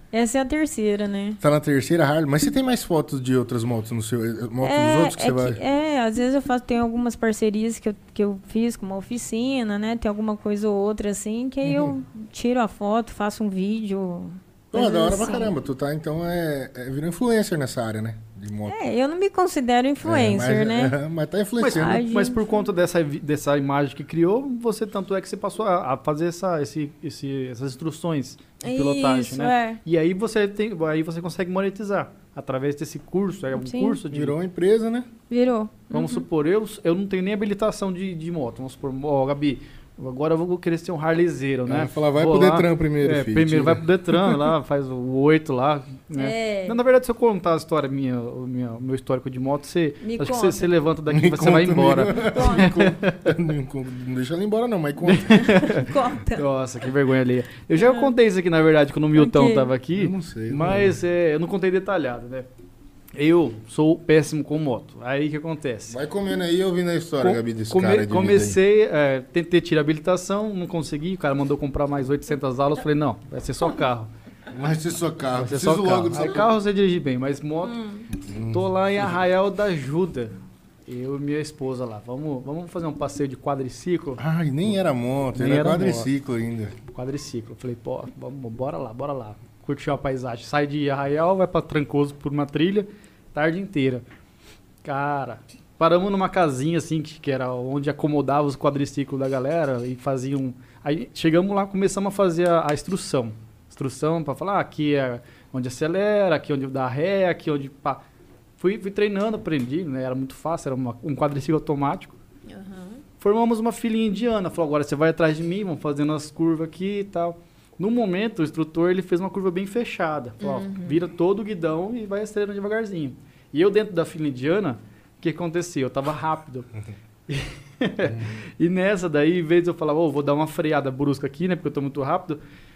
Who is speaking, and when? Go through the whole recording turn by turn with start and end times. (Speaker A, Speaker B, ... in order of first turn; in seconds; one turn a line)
Speaker A: 0.1-1.4
Speaker B: 1.4-5.6
Speaker A: 4.6-15.6
Speaker B: 11.6-11.9
Speaker B: 14.7-18.8
Speaker A: 18.7-21.0
Speaker B: 20.0-22.0
Speaker C: 21.6-34.4
Speaker A: 21.8-22.6
Speaker A: 28.6-29.8
Speaker A: 33.5-34.0
Speaker B: 34.1-35.1
Speaker A: 35.3-36.3
Speaker C: 35.9-53.3
Speaker B: 41.7-44.5
Speaker A: 46.2-46.8
Speaker A: 50.0-50.7
Speaker B: 51.1-55.6
Speaker A: 52.1-52.8
Speaker C: 55.0-62.5
Speaker A: 55.4-56.5
Speaker A: 57.8-58.1
Speaker A: 59.1-59.7
Speaker B: 60.0-61.0
Speaker C: 63.1-66.0
Speaker B: 65.9-68.6
Speaker C: 67.2-74.1
Speaker B: 74.5-76.5
Speaker C: 75.3-77.8
Speaker A: 77.6-78.1
Speaker B: 78.2-78.7
Speaker C: 78.5-80.3
Speaker C: 80.9-84.7
Speaker B: 84.2-86.8
Speaker C: 85.3-86.1
Speaker C: 86.9-94.0
Speaker C: 94.8-108.0
Speaker C: 108.6-112.2
Speaker A: 112.5-113.0
Speaker C: 113.2-126.7
Speaker A: 120.4-121.0
Speaker C: 127.3-132.4